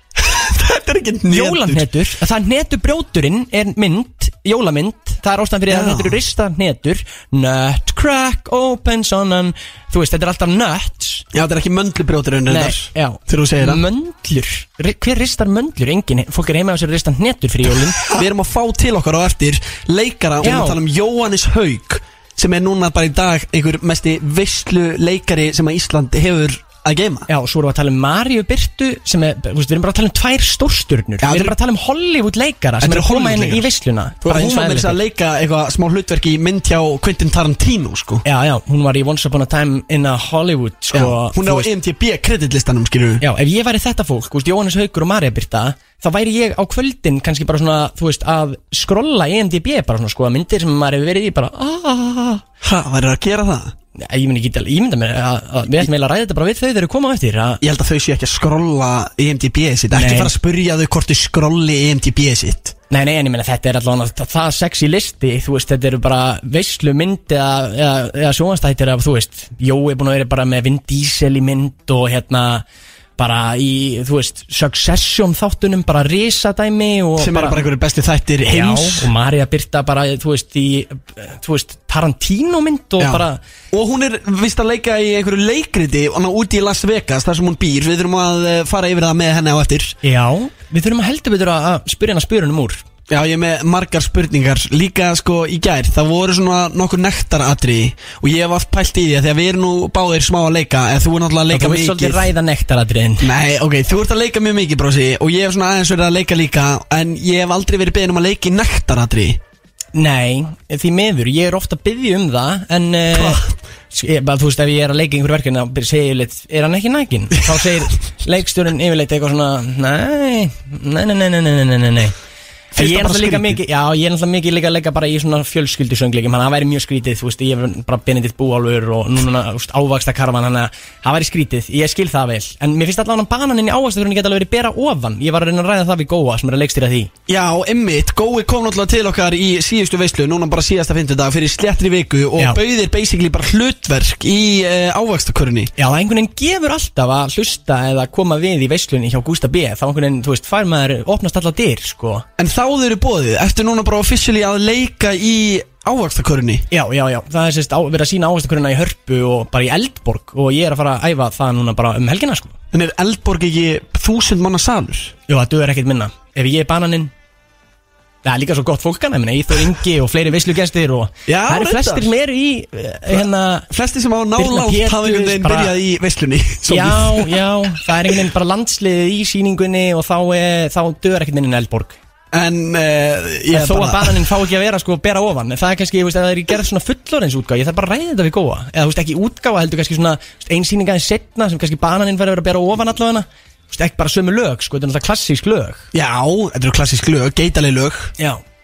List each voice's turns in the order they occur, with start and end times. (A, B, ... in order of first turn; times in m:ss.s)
0:00.2-0:01.8 A
0:01.3-0:11.3 B
0:05.7-0:06.2 A
0:11.3-0:13.8 A
0:12.5-0:18.2 B
0:18.1-0:27.3 A
0:20.4-0:20.8 B
0:27.3-0:35.0 B
0:31.2-0:31.5 A
0:32.8-0:33.7 A
0:34.2-0:38.2 A
0:38.2-0:41.7 B
0:40.9-0:43.2 A
0:43.2-0:52.4 B
0:52.6-0:53.7 A
0:54.0-0:57.6 B
0:57.6-1:02.7 A
0:59.9-1:00.3 B
1:02.9-1:12.6 B
1:13.2-1:17.6 B
1:17.2-1:19.1 A
1:18.5-1:23.4 B
1:23.0-1:30.0 A
1:30.0-1:32.8 B
1:33.1-1:42.3 A
1:41.5-1:43.3 B
1:43.2-1:49.4 A
1:49.9-2:02.1 B
1:53.1-1:53.5 A
2:02.7-2:03.6 A
2:02.7-2:17.1 B
2:17.3-2:25.7 A
2:25.8-2:32.2 B
2:32.4-2:36.6 A
2:36.7-2:42.5 B
2:42.7-2:45.1 A
2:45.3-2:47.1 B
2:48.2-2:53.7 B
2:51.3-2:52.1 A
2:53.1-2:57.4 A
2:54.4-2:55.8 B
2:56.7-3:02.0 B
3:02.3-3:04.3 A
3:03.5-3:15.9 B
3:15.9-3:18.1 A